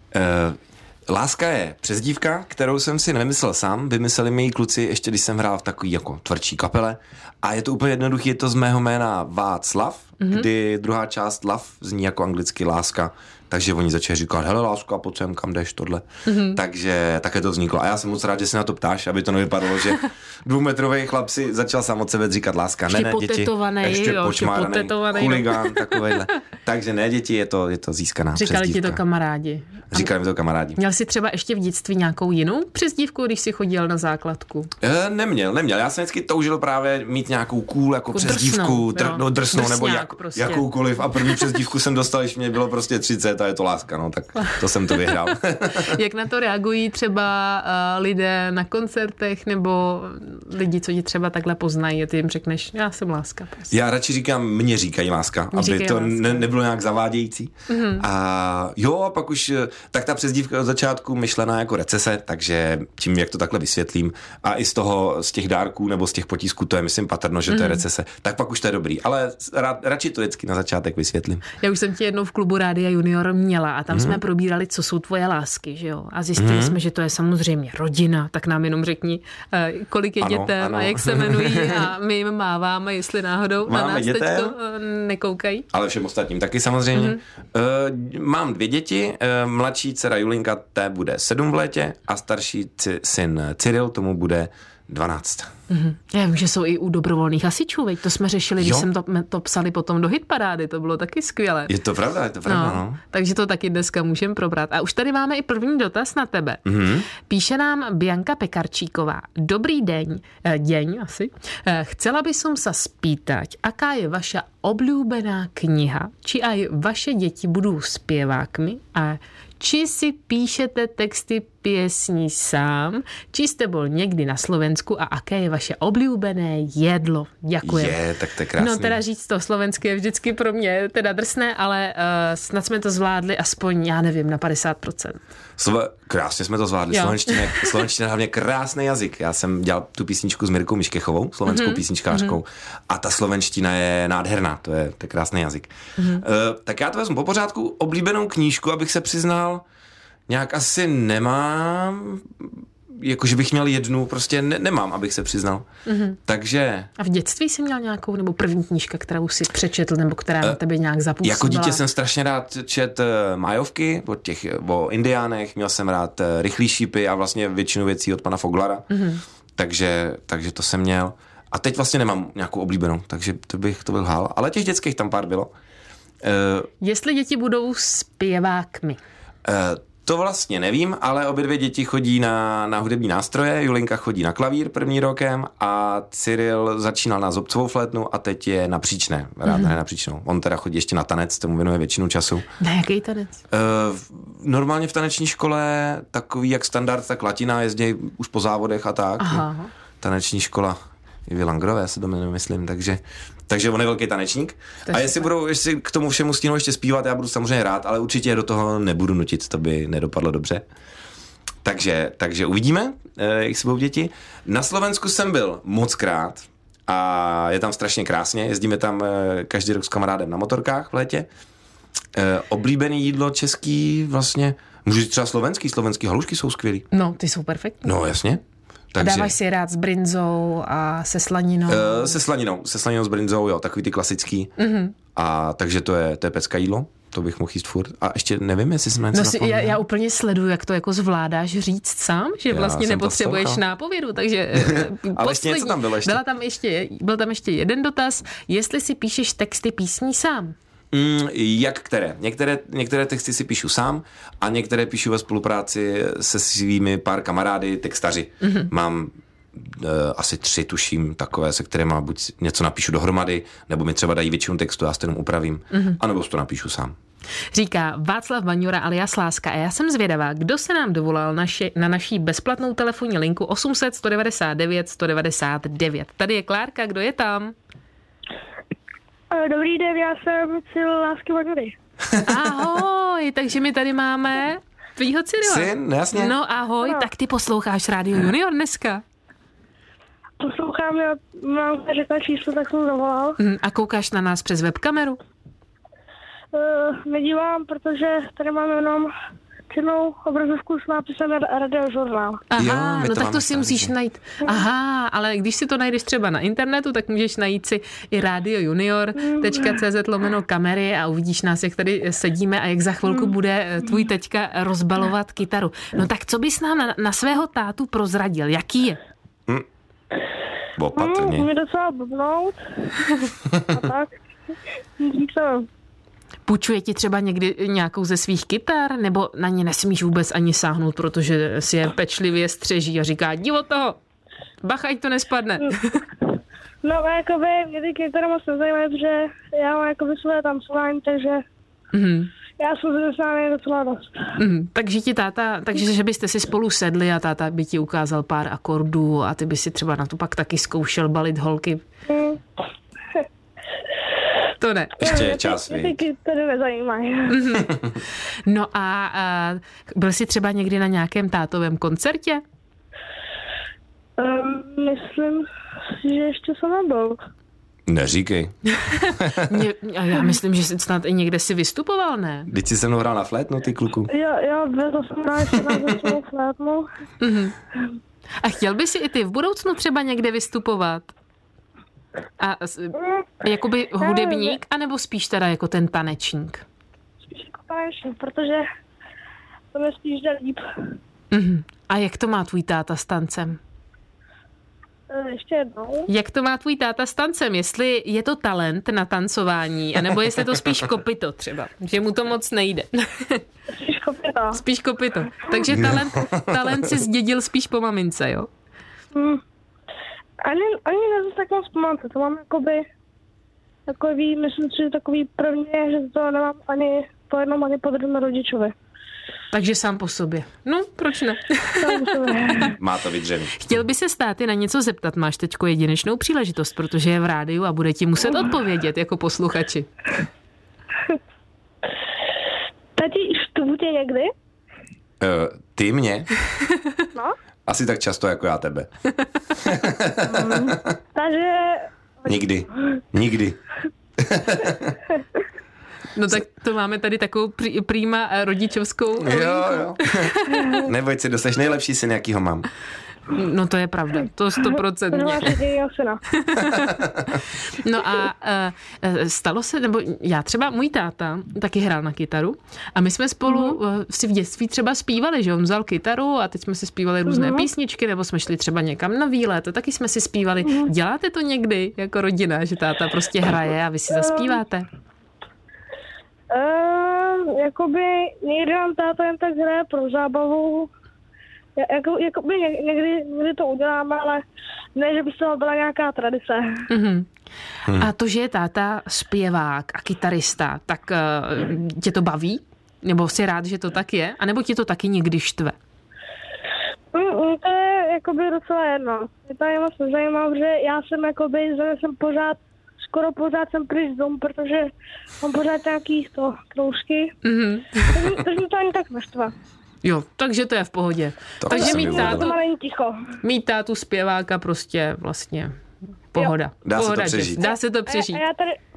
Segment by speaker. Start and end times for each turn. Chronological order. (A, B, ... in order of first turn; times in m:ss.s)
0:00.1-0:29.0 A
0:10.2-0:10.5 B
0:16.2-0:16.6 B
0:22.9-0:26.2 B
0:28.4-0:30.1 B
0:29.9-0:30.8 A
0:30.8-0:34.7 B
0:34.8-0:46.0 A
0:38.1-0:40.7 B
0:44.4-0:53.7 B
0:53.7-1:11.4 A
0:55.5-0:56.4 B
0:57.7-0:58.0 B
1:07.5-1:07.8 B
1:11.6-1:25.7 B
1:13.9-1:14.2 A
1:16.4-1:16.8 A
1:20.2-1:21.9 A
1:23.7-1:24.6 A
1:25.7-1:35.5 A
1:26.9-1:27.2 B
1:35.7-1:41.7 B
1:38.6-1:38.9 A
1:41.7-1:43.0 A
1:42.5-1:46.6 B
1:46.6-1:47.1 A
1:47.1-2:08.0 B
2:07.6-2:09.0 A
2:08.6-2:15.2 B
2:15.6-2:29.6 A
2:16.9-2:17.8 B
2:21.5-2:22.4 B
2:26.0-2:26.2 B
2:30.3-2:35.7 A
2:35.9-2:36.2 B
2:36.3-2:36.9 A
2:37.0-2:41.8 B
2:41.2-2:48.9 A
2:48.9-2:49.2 B
2:49.6-2:55.5 A
2:56.2-2:56.7 A
2:56.8-2:59.0 B
2:59.4-3:12.5 A
3:09.5-3:09.7 B
3:12.6-3:13.4 B
3:13.5-3:19.4 A
3:19.2-3:19.7 B
3:20.0-3:20.8 A
3:21.3-3:30.6 A
3:24.9-3:25.2 B
3:31.6-3:41.3 A
3:42.1-3:46.9 A
3:46.9-3:47.9 B
3:47.8-3:48.4 A
3:48.9-3:49.4 A
3:49.0-3:52.2 B
3:51.7-3:54.5 A
3:54.6-3:55.0 B
3:55.2-3:59.8 A
3:59.1-4:10.6 B
4:02.5-4:03.6 A
4:04.6-4:06.2 A
4:10.9-4:27.0 A
4:18.4-4:18.7 B
4:25.7-4:26.0 B
4:27.5-4:37.6 B
4:39.3-4:41.8 C
4:42.2-4:49.0 B
4:45.4-4:46.4 A
4:50.4-4:53.4 C
4:53.4-4:55.2 B
4:56.5-4:59.1 C
4:59.7-5:02.4 C
5:02.5-5:19.0 B
5:02.6-5:03.9 A
5:09.2-5:09.7 C
5:20.8-5:21.5 A
5:20.9-5:24.1 C
5:25.0-5:25.7 C
5:26.5-5:34.0 B
5:34.6-5:36.0 B
5:36.8-5:41.4 C
5:41.9-5:42.3 B
5:42.6-5:44.3 C
5:44.4-5:51.8 B
5:52.1-5:52.4 C
5:54.6-5:55.1 B
5:55.0-5:56.0 A
5:55.0-5:57.4 C
5:57.3-5:57.7 B
5:58.5-6:02.4 B
6:04.2-6:07.2 C
6:07.9-6:08.6 A
6:08.7-6:12.5 B
6:09.2-6:09.6 A
6:12.5-6:14.1 A
6:14.1-6:16.9 C
6:17.2-6:17.6 B
6:18.4-6:21.1 B
6:22.4-6:26.6 B
6:24.0-6:24.6 C
6:27.3-6:28.7 C
6:29.7-6:30.6 C
6:31.3-6:33.6 B
6:35.1-6:36.1 C
6:36.1-6:43.4 B
6:43.8-6:44.6 C
6:44.6-6:48.5 B
6:45.7-6:46.9 A
6:49.2-6:49.4 C
6:50.4-6:52.8 C
6:53.9-6:58.7 C
6:59.5-7:02.7 B
7:01.8-7:02.8 C
7:02.8-7:03.6 A
7:03.6-7:09.9 B
7:13.0-7:14.3 C
7:15.2-7:16.3 A
7:17.7-7:18.9 A
7:19.6-7:21.0 A
7:20.3-7:21.9 C
7:22.3-7:23.6 A
7:24.2-7:25.0 A
7:26.2-7:30.8 B
7:29.2-7:32.7 A
7:30.5-7:30.8 C
7:33.3-7:35.5 B
7:34.6-7:36.2 C
7:36.4-7:37.0 B
7:36.7-7:37.4 A
7:37.6-7:54.9 B
7:43.5-7:43.8 C
7:47.3-7:47.7 C
7:54.1-7:54.6 C
7:56.5-8:00.9 C
8:01.8-8:04.4 C
8:05.0-8:06.9 C
8:06.9-8:07.3 B
8:07.9-8:15.8 B
8:17.1-8:27.4 C
8:27.4-8:28.2 B
8:28.1-8:29.5 C
8:30.0-8:32.5 B
8:31.6-8:32.5 A
8:31.7-8:33.2 C
8:33.4-8:35.8 B
8:36.3-8:38.4 B
8:36.8-8:37.7 A
8:38.1-8:38.8 C